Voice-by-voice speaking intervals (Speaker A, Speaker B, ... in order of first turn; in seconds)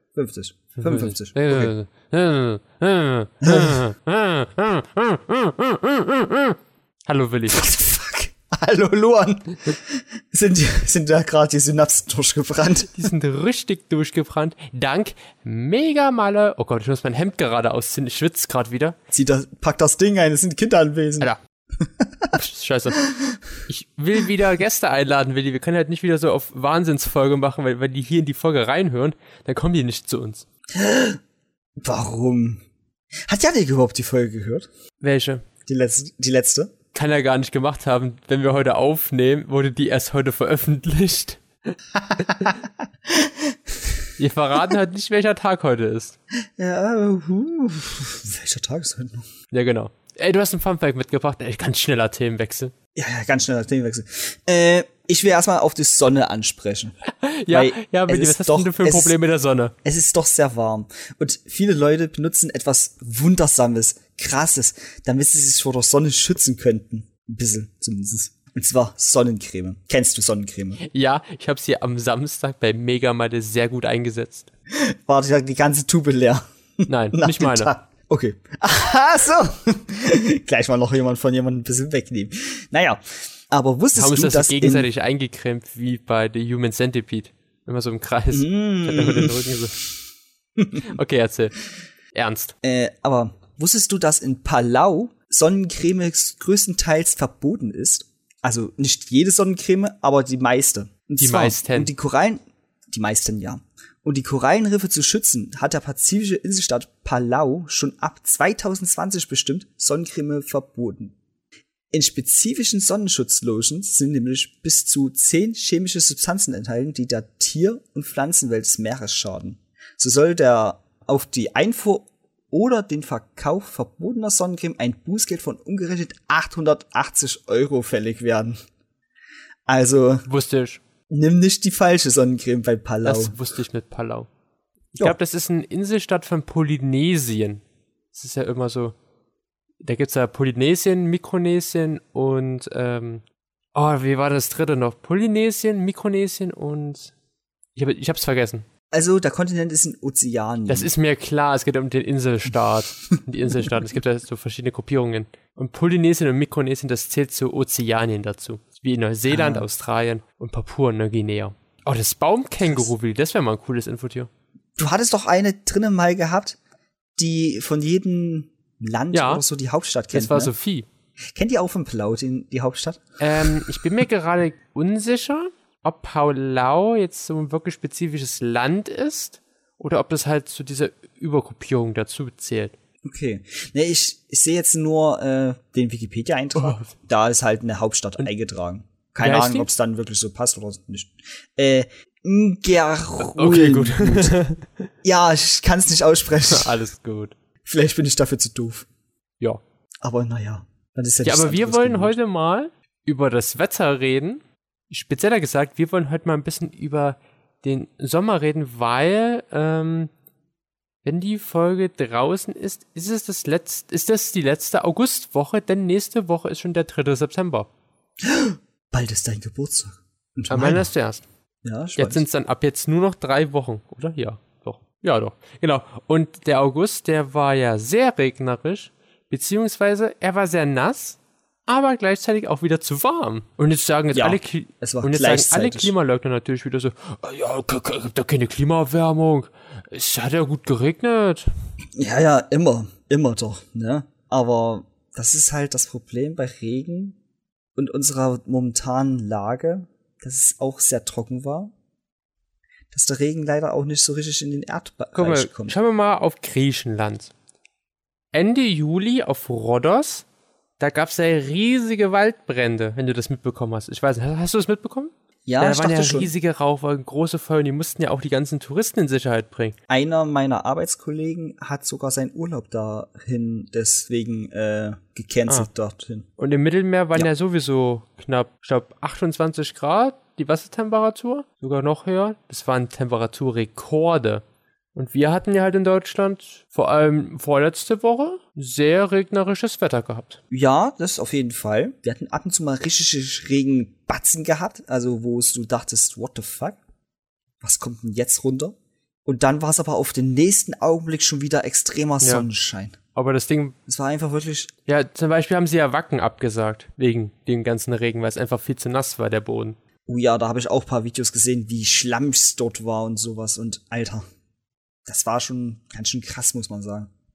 Speaker A: 0.1-1.7, 3.4-3.8, 7.5-13.0, 19.1-22.4, 23.0-23.4, 30.7-31.2, 31.8-32.6, 33.2-34.7, 35.6-36.7, 42.0-44.1, 46.6-49.3, 53.0-57.0, 57.5-59.1, 59.8-70.8, 74.7-84.9, 88.3-89.9, 90.6-90.9, 92.6-111.2, 111.9-128.6, 129.7-130.3, 131.1-133.4, 148.9-150.9, 159.3-159.7, 162.7-162.9, 164.8-166.6, 167.2-170.5, 171.3-173.8, 183.0-194.3, 195.0-196.8, 197.7-198.9, 200.0-202.2, 218.2-220.9, 221.6-222.2, 234.1-235.9, 242.0-247.2, 247.8-251.7, 252.9-255.8, 265.5-266.3, 269.9-276.3, 290.5-296.8, 297.6-303.0, 303.9-304.7, 310.1-314.2, 315.1-317.1
Speaker B: 0.8-7.6, 12.9-19.0, 22.3-23.0, 23.7-30.4, 35.0-35.4, 36.9-42.5, 44.2-46.2, 49.5-52.7, 57.1-59.7, 70.8-74.5, 76.9-77.7, 83.9-89.8, 90.8-91.6, 92.1-92.5, 101.2-101.9, 130.3-130.8, 133.1-134.3, 135.0-137.6, 138.1-138.9, 139.8-143.2, 143.8-147.1, 147.8-148.7, 150.7-164.3, 169.1-169.4, 170.1-170.9, 173.2-182.7, 186.6-186.9, 189.2-189.7, 193.2-194.9, 196.5-197.3, 201.2-210.1, 211.0-217.7, 220.5-221.2, 222.0-241.5, 255.2-257.3, 258.3-260.2, 260.8-269.8, 276.4-284.4, 284.9-290.4, 303.1-303.8, 304.9-309.8